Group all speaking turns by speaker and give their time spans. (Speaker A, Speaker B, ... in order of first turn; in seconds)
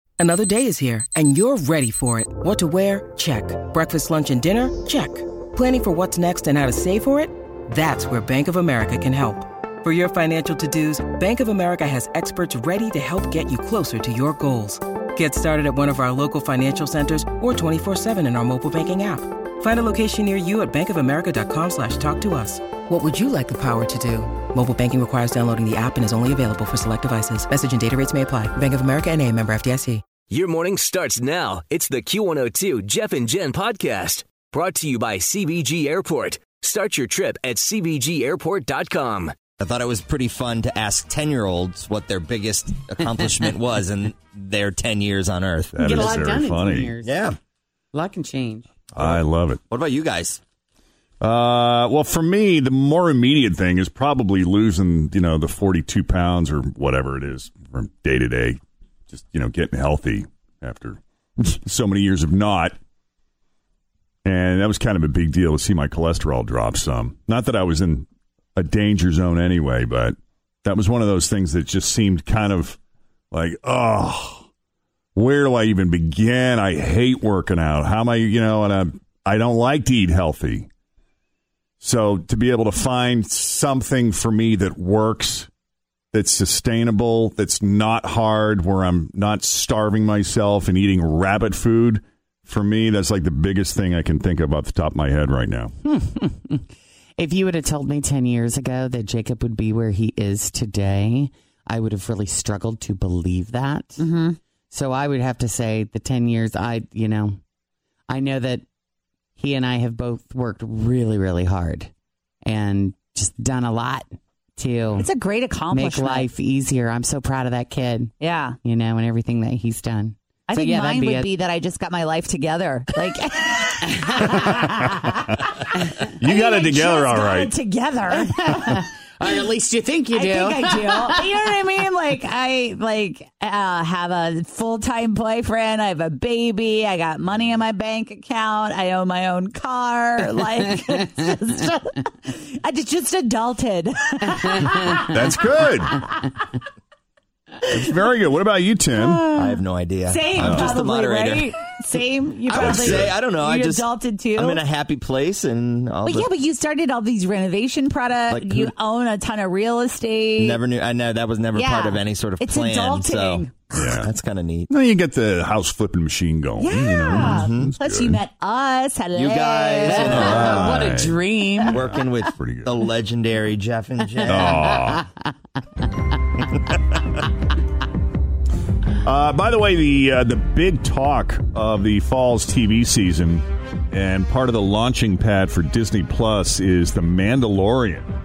Speaker A: 0.2-30.0
Speaker B: 30.2-39.4
Speaker C: 39.6-46.0, 47.0-47.4, 48.9-50.4, 149.3-151.5, 152.5-156.3, 158.3-158.7, 160.4-163.5, 164.0-164.7, 167.2-167.7, 169.1-170.8, 171.7-174.4
Speaker D: 45.7-47.0, 49.0-49.6, 51.2-58.6, 59.1-62.8, 64.2-72.8, 73.3-74.5, 75.1-80.7, 81.8-85.5, 86.1-95.7, 124.4-125.4, 126.0-127.5, 145.1-146.0, 147.7-149.3, 150.4-150.8, 152.6-153.1, 163.7-164.1, 164.7-168.2, 170.1-172.7, 174.2-175.0, 179.0-188.1
Speaker E: 45.8-47.1, 47.9-48.6, 95.8-96.7, 97.2-104.0, 104.7-107.4, 108.1-108.6, 109.4-111.9, 112.4-115.1, 115.7-121.3, 123.9-124.4, 128.1-131.4, 152.5-152.8, 169.8-171.8, 174.2-175.0
Speaker F: 104.0-104.4, 115.0-116.3, 118.2-118.6, 120.5-125.1, 126.2-128.6, 130.1-145.0, 148.9-154.6, 156.0-160.6, 161.5-164.0, 166.6-170.3